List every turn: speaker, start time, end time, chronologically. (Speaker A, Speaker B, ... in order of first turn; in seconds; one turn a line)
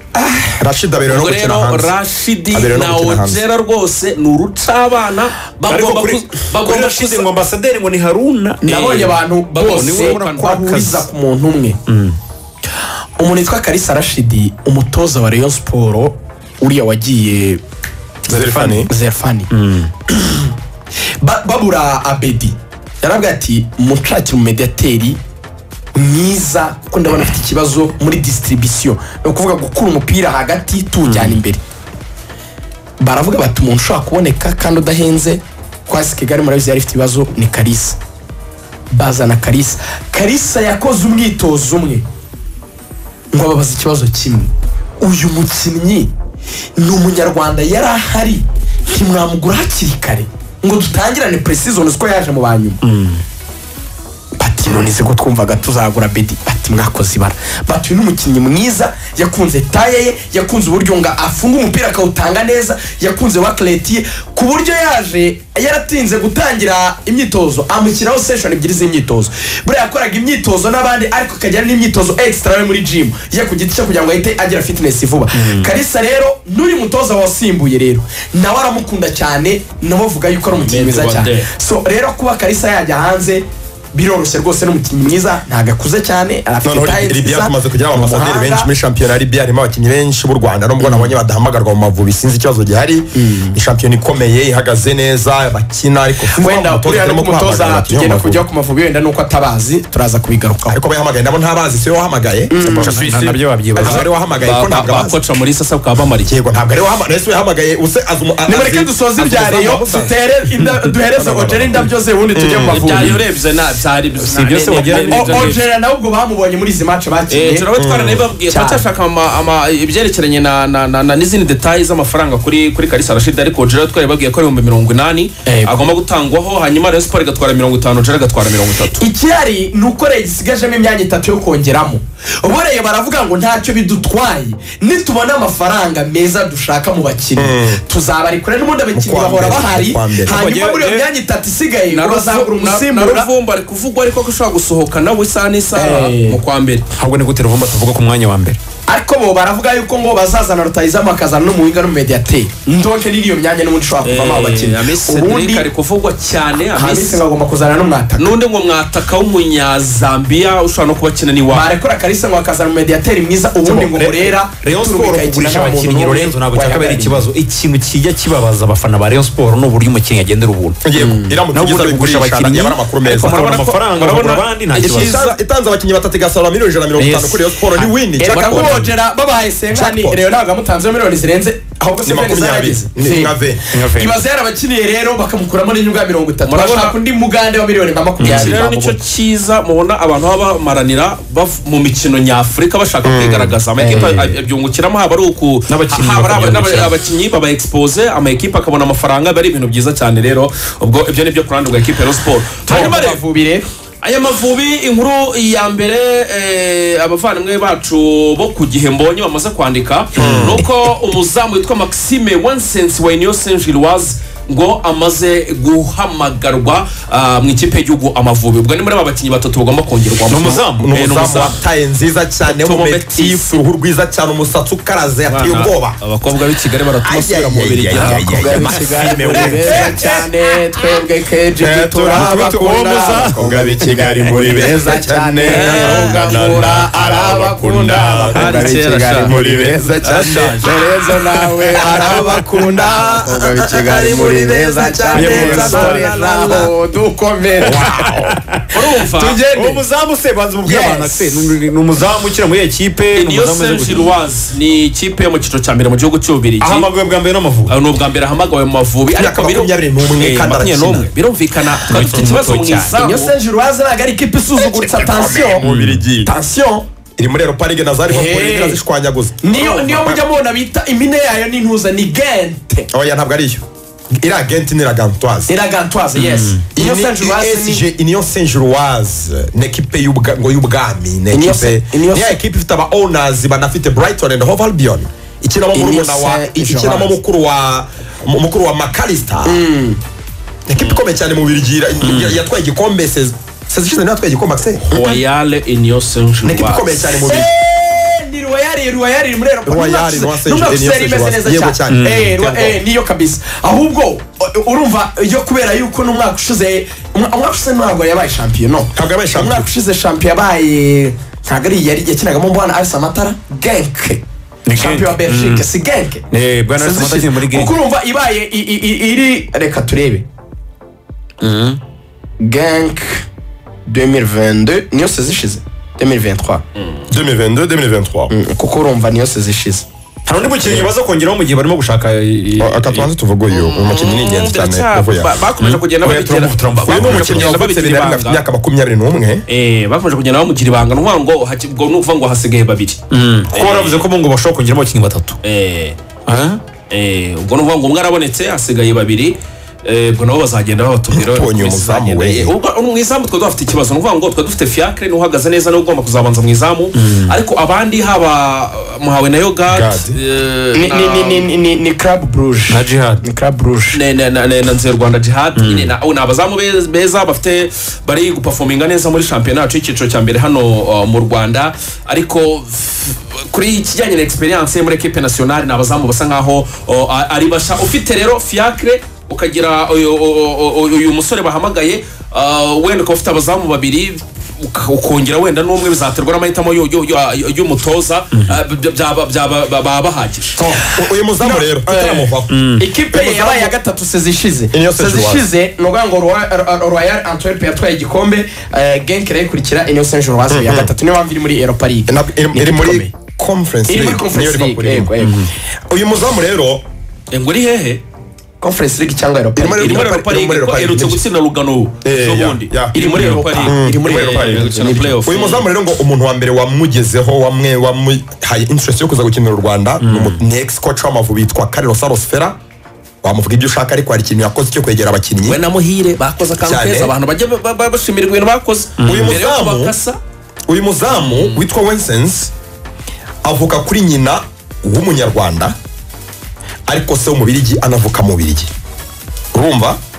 Speaker A: 0.2-1.9
Speaker B: 1.1-7.4
Speaker A: 2.5-3.4
Speaker C: 5.7-8.6
Speaker D: 8.6-11.8
Speaker B: 8.7-10.6
Speaker C: 9.7-11.0
Speaker C: 11.9-12.2
Speaker D: 13.2-17.6
Speaker A: 18.3-18.9
Speaker D: 18.3-19.5
Speaker C: 19.5-19.9
Speaker D: 21.2-25.2
Speaker D: 25.9-31.6
Speaker D: 33.0-38.0
Speaker D: 38.9-42.0
Speaker D: 43.3-46.1
Speaker D: 46.8-52.8
Speaker C: 52.8-53.2
Speaker D: 54.4-88.7
Speaker C: 75.3-75.7
Speaker B: 80.5-81.5
Speaker A: 86.6-98.4
Speaker D: 90.8-91.2
Speaker D: 93.1-93.5
Speaker D: 96.3-100.8
Speaker A: 100.7-105.2
Speaker D: 102.5-103.0
Speaker C: 102.6-104.1
Speaker D: 103.8-104.0
Speaker B: 104.4-106.3
Speaker A: 106.2-110.1
Speaker D: 108.5-113.2
Speaker A: 111.1-113.1
Speaker B: 112.7-115.5
Speaker C: 114.2-115.6
Speaker D: 115.0-117.7
Speaker B: 117.3-129.1
Speaker A: 117.8-118.3
Speaker D: 118.5-118.8
Speaker D: 125.5-125.8
Speaker D: 128.9-143.3
Speaker A: 137.4-137.8
Speaker A: 138.9-140.4
Speaker B: 140.3-141.0
Speaker B: 141.9-146.8
Speaker D: 145.7-146.4
Speaker C: 147.0-148.6
Speaker D: 148.9-155.7
Speaker B: 154.0-157.2
Speaker D: 156.7-158.3
Speaker B: 158.2-161.7
Speaker D: 161.5-167.3
Speaker C: 163.6-170.8
Speaker A: 170.8-173.4
Speaker C: 171.5-175.1
Speaker B: 173.2-175.4
Speaker A: 174.8-178.8
Speaker C: 177.0-177.4
Speaker D: 178.2-188.9
Speaker B: 178.2-178.9
Speaker A: 179.7-180.2
Speaker A: 182.0-183.7
Speaker C: 183.7-184.2
Speaker B: 186.4-187.0
Speaker C: 188.2-188.5
Speaker B: 188.2-203.2
Speaker A: 193.0-193.6
Speaker C: 193.8-194.2
Speaker C: 195.7-196.9
Speaker D: 202.7-203.6
Speaker B: 204.0-221.6
Speaker A: 210.2-210.6
Speaker C: 220.3-220.9
Speaker A: 220.8-226.0
Speaker B: 222.4-223.5
Speaker B: 225.3-228.7
Speaker A: 227.0-230.1
Speaker D: 227.9-239.8
Speaker A: 231.6-232.7
Speaker C: 232.1-234.8
Speaker A: 233.3-238.7
Speaker B: 235.4-236.3
Speaker B: 238.3-239.4
Speaker A: 239.2-241.0
Speaker B: 240.0-240.8
Speaker D: 240.6-247.9
Speaker A: 241.7-246.7
Speaker C: 245.1-246.1
Speaker B: 245.3-246.6
Speaker A: 247.6-248.3
Speaker C: 247.7-248.6
Speaker B: 248.7-249.4
Speaker D: 248.9-249.8
Speaker C: 249.5-254.1
Speaker A: 250.6-251.2
Speaker B: 253.1-256.9
Speaker C: 256.6-257.7
Speaker B: 257.7-263.3
Speaker A: 259.1-261.1
Speaker C: 261.9-262.9
Speaker A: 261.9-262.5
Speaker D: 262.9-265.6
Speaker A: 264.6-266.3
Speaker C: 265.6-266.0
Speaker D: 266.2-266.8
Speaker A: 267.2-270.2
Speaker D: 268.1-268.8
Speaker D: 269.4-272.9
Speaker A: 272.9-273.6
Speaker A: 274.1-275.5
Speaker D: 275.5-277.9
Speaker A: 276.7-289.6
Speaker D: 281.3-282.4
Speaker D: 285.7-287.2
Speaker D: 289.4-290.0
Speaker A: 290.7-294.9
Speaker C: 292.0-292.4
Speaker B: 294.9-296.9
Speaker A: 296.4-297.5
Speaker D: 297.2-314.2
Speaker A: 299.6-302.8
Speaker C: 301.9-302.3
Speaker A: 308.9-309.7
Speaker C: 314.6-315.6
Speaker D: 314.7-316.2
Speaker C: 316.3-317.7
Speaker D: 316.8-320.2
Speaker C: 321.4-321.8
Speaker D: 322.4-323.2
Speaker D: 323.9-326.6
Speaker A: 327.1-328.3
Speaker D: 328.3-329.9
Speaker C: 330.2-333.1
Speaker A: 330.6-330.9
Speaker A: 332.6-335.3
Speaker B: 333.5-338.4
Speaker C: 335.6-337.5
Speaker A: 336.9-339.4
Speaker B: 339.5-344.1
Speaker C: 343.1-345.4
Speaker B: 345.4-346.0
Speaker C: 346.3-346.6
Speaker B: 346.9-361.4
Speaker A: 351.1-352.5
Speaker C: 357.0-357.3
Speaker A: 359.7-360.1
Speaker D: 360.7-364.0
Speaker C: 362.7-363.2
Speaker B: 363.9-390.5
Speaker C: 365.6-365.9
Speaker A: 390.6-393.7
Speaker D: 391.4-403.1
Speaker C: 392.5-392.8
Speaker A: 394.7-395.4
Speaker A: 400.5-400.9
Speaker A: 402.1-405.1
Speaker D: 403.9-405.4
Speaker C: 405.2-405.5
Speaker A: 405.9-406.8
Speaker B: 407.3-408.0
Speaker D: 408.6-409.8
Speaker A: 409.5-411.2
Speaker B: 409.8-415.7
Speaker A: 412.0-414.7
Speaker D: 413.1-415.2
Speaker C: 413.1-413.4
Speaker A: 415.2-422.6
Speaker C: 420.0-420.4
Speaker A: 423.2-425.6
Speaker B: 425.5-430.2
Speaker A: 426.6-427.1
Speaker A: 429.0-429.9
Speaker A: 430.7-432.5
Speaker B: 431.1-431.6
Speaker A: 433.4-435.7
Speaker A: 436.9-438.7
Speaker A: 439.5-440.0